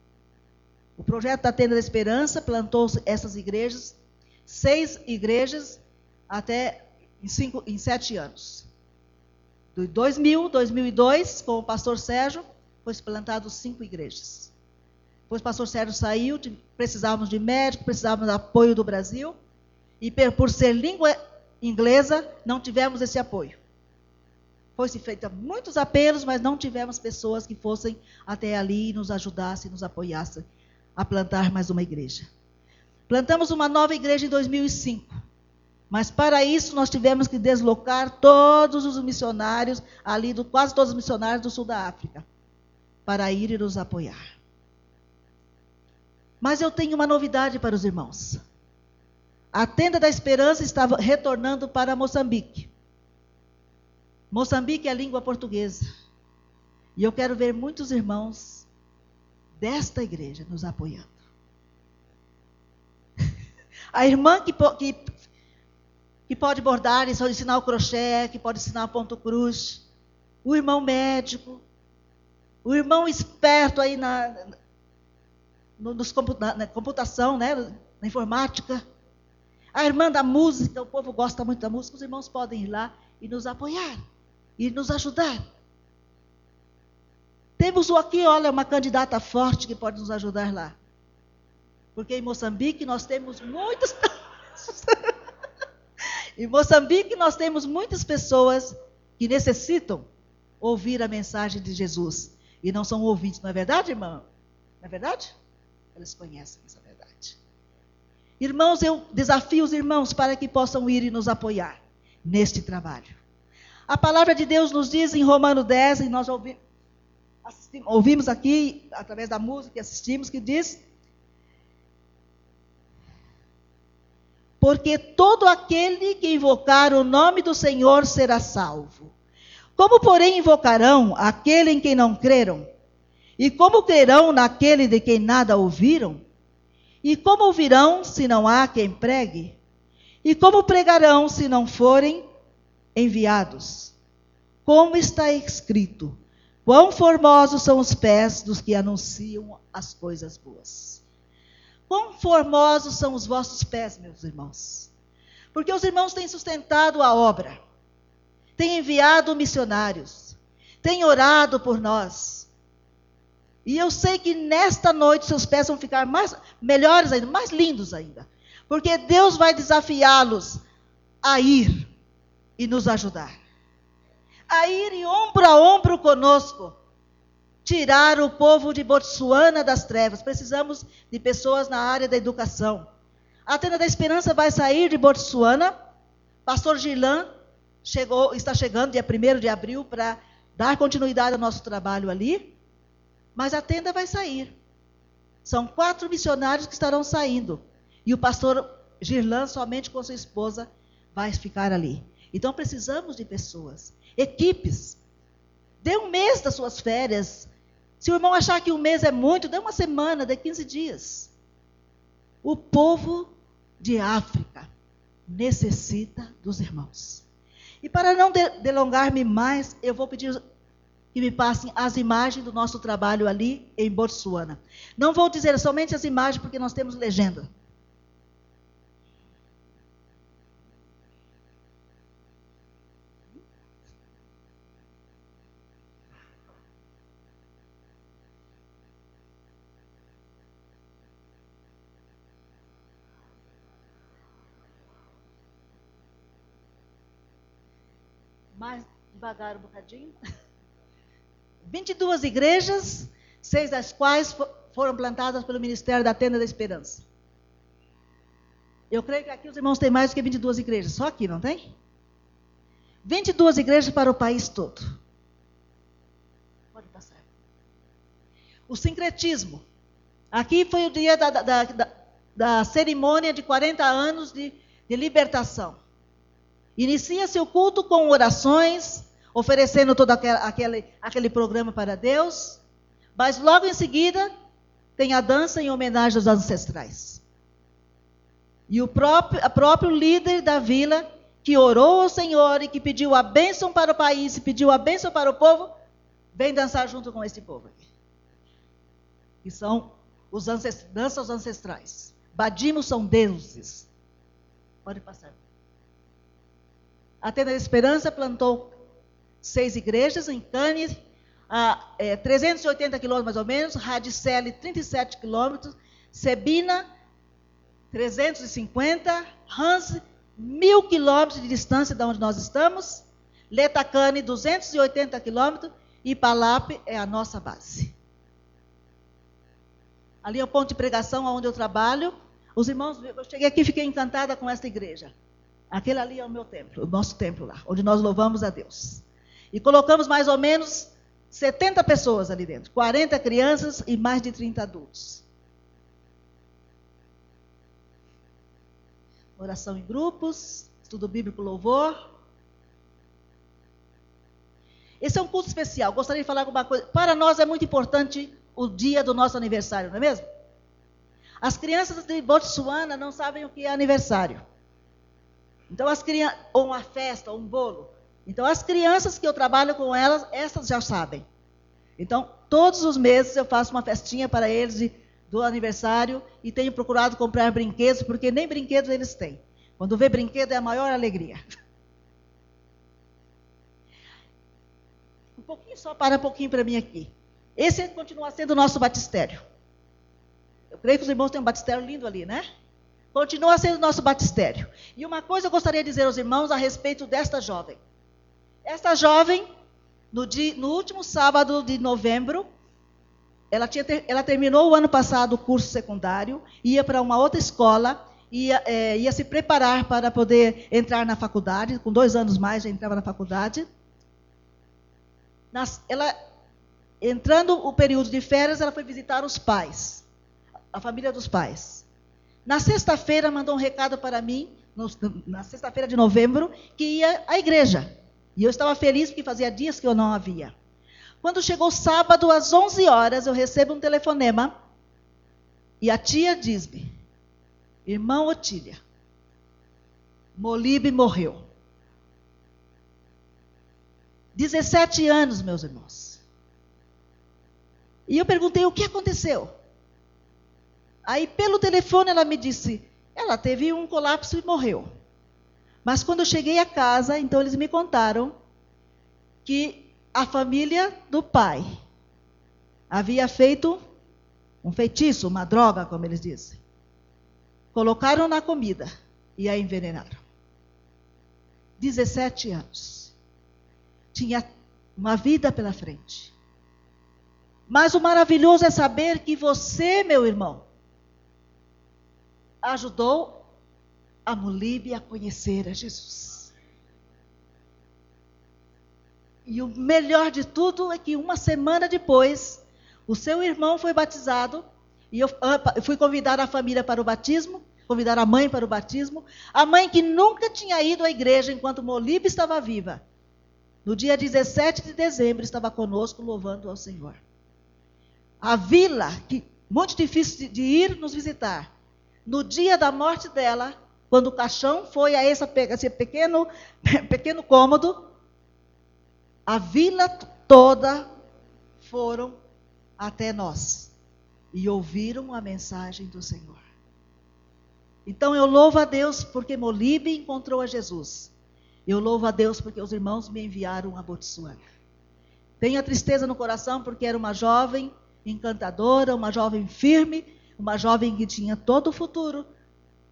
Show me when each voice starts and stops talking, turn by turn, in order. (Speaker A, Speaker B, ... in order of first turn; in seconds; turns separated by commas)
Speaker A: 1.0-8.7, Speaker A: 9.8-14.5, Speaker A: 15.3-19.4, Speaker A: 20.0-23.6, Speaker A: 24.8-32.3, Speaker A: 33.1-35.1, Speaker A: 35.9-42.2, Speaker A: 43.1-44.2, Speaker A: 46.4-48.4, Speaker A: 49.5-52.7, Speaker A: 54.3-55.9, Speaker A: 57.0-58.7, Speaker A: 59.6-61.1, Speaker A: 63.9-65.1, Speaker A: 66.3-69.8, Speaker A: 70.5-71.6, Speaker A: 72.7-74.5, Speaker A: 75.8-78.8, Speaker A: 79.7-84.0, Speaker A: 84.6-85.4, Speaker A: 87.6-90.8, Speaker A: 92.0-95.0, Speaker A: 96.4-100.1, Speaker A: 100.6-104.2, Speaker A: 104.8-105.3, Speaker A: 106.0-107.4, Speaker A: 108.4-113.2, Speaker A: 113.9-116.6, Speaker A: 117.5-120.8, Speaker A: 124.6-129.1, Speaker A: 129.8-132.7, Speaker A: 133.4-136.2, Speaker A: 137.0-139.6, Speaker A: 140.2-142.2, Speaker A: 142.9-143.9, Speaker A: 144.7-151.0, Speaker A: 151.9-154.9, Speaker A: 155.5-157.6, Speaker A: 158.6-162.5, Speaker A: 163.7-170.6, Speaker A: 171.2-171.9, Speaker A: 172.6-173.4, Speaker A: 174.5-176.8, Speaker A: 177.7-182.9, Speaker A: 183.5-185.7, Speaker A: 186.5-187.3, Speaker A: 187.8-192.6, Speaker A: 193.4-194.5, Speaker A: 195.4-205.0, Speaker A: 205.8-207.5, Speaker A: 208.0-211.3, Speaker A: 212.4-213.3, Speaker A: 213.8-214.7, Speaker A: 215.3-217.2, Speaker A: 217.8-220.4, Speaker A: 221.1-227.5, Speaker A: 248.6-250.1, Speaker A: 251.7-257.1, Speaker A: 258.9-261.7, Speaker A: 263.0-264.8, Speaker A: 266.7-267.2, Speaker A: 268.7-269.6, Speaker A: 270.3-275.8, Speaker A: 276.8-282.6, Speaker A: 283.2-284.3, Speaker A: 285.0-287.2, Speaker A: 288.7-295.7, Speaker A: 296.4-297.9, Speaker A: 299.4-303.9, Speaker A: 304.9-305.4, Speaker A: 307.2-308.8, Speaker A: 309.4-311.0, Speaker A: 311.5-316.9, Speaker A: 317.9-327.9, Speaker A: 330.2-335.1, Speaker A: 335.7-345.2, Speaker A: 349.4-352.0, Speaker A: 355.0-360.2, Speaker A: 361.4-364.4, Speaker A: 365.7-371.3, Speaker A: 372.0-381.4, Speaker A: 385.4-389.4, Speaker A: 390.8-392.4, Speaker A: 393.1-397.8, Speaker A: 398.6-399.4, Speaker A: 400.1-402.5, Speaker A: 403.5-413.7, Speaker A: 415.5-416.1, Speaker A: 417.0-420.0, Speaker A: 420.7-421.9, Speaker A: 422.5-430.5, Speaker A: 431.2-434.5, Speaker A: 435.8-436.9, Speaker A: 437.9-438.8, Speaker A: 440.4-441.4, Speaker A: 444.4-446.2, Speaker A: 448.1-449.5, Speaker A: 451.1-454.9, Speaker A: 455.9-458.3, Speaker A: 459.4-461.7, Speaker A: 462.9-463.8, Speaker A: 464.6-466.6, Speaker A: 467.7-470.2, Speaker A: 471.8-473.1, Speaker A: 474.1-474.5, Speaker A: 475.0-476.3, Speaker A: 477.7-480.7, Speaker A: 482.6-483.4, Speaker A: 484.3-486.5, Speaker A: 489.5-503.0, Speaker A: 503.9-507.2, Speaker A: 508.4-511.7, Speaker A: 512.3-518.1, Speaker A: 519.5-521.1, Speaker A: 521.8-522.4, Speaker A: 523.0-523.9, Speaker A: 524.5-526.6, Speaker A: 528.1-531.3, Speaker A: 531.9-534.6, Speaker A: 535.6-542.5